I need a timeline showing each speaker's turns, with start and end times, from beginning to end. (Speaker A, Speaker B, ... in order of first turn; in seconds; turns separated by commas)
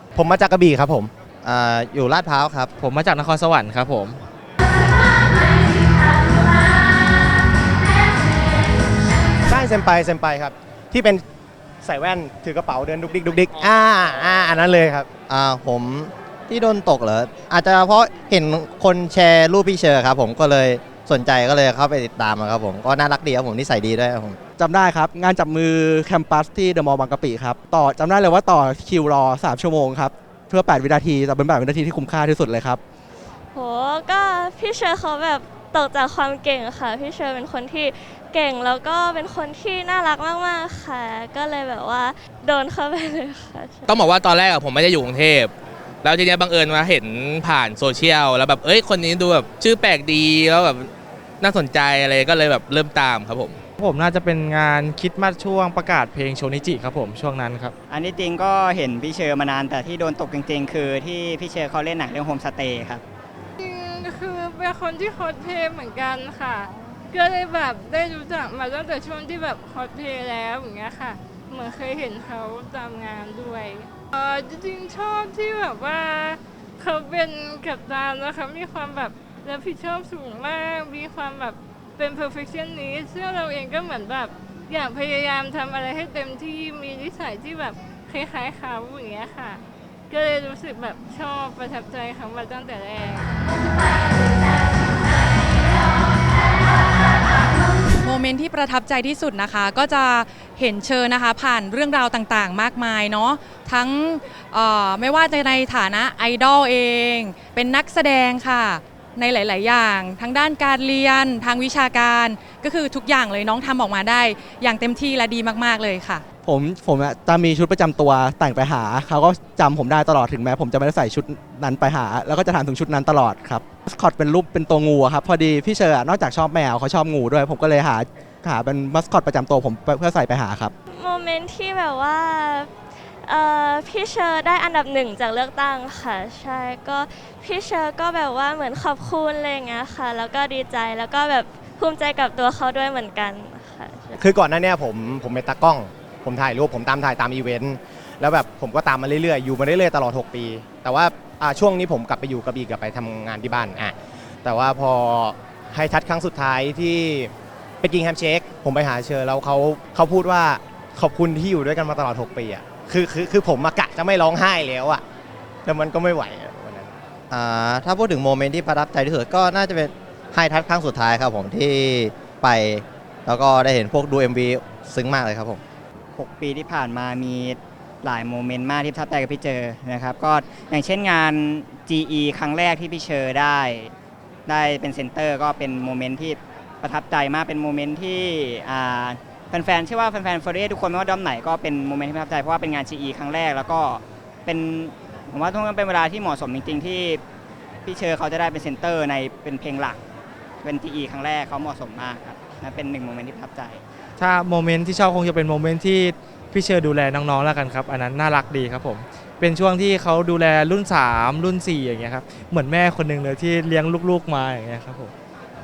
Speaker A: 0.1-1.1, Speaker B: 1.4-2.7, Speaker C: 2.8-4.2, Speaker A: 9.5-11.2, Speaker A: 11.8-15.1, Speaker B: 15.3-24.4, Speaker D: 24.6-32.8, Speaker E: 33.5-43.9, Speaker F: 43.9-45.5, Speaker F: 46.0-53.6, Speaker C: 53.8-57.7, Speaker G: 57.9-63.0, Speaker H: 63.6-93.3, Speaker I: 98.0-116.2, Speaker D: 116.4-130.7, Speaker E: 130.9-144.2, Speaker A: 144.2-165.0, Speaker A: 165.6-166.9, Speaker B: 167.3-175.6, Speaker G: 176.2-183.9, Speaker G: 184.5-197.2, Speaker G: 197.8-200.0, Speaker G: 200.6-203.8, Speaker C: 204.2-215.1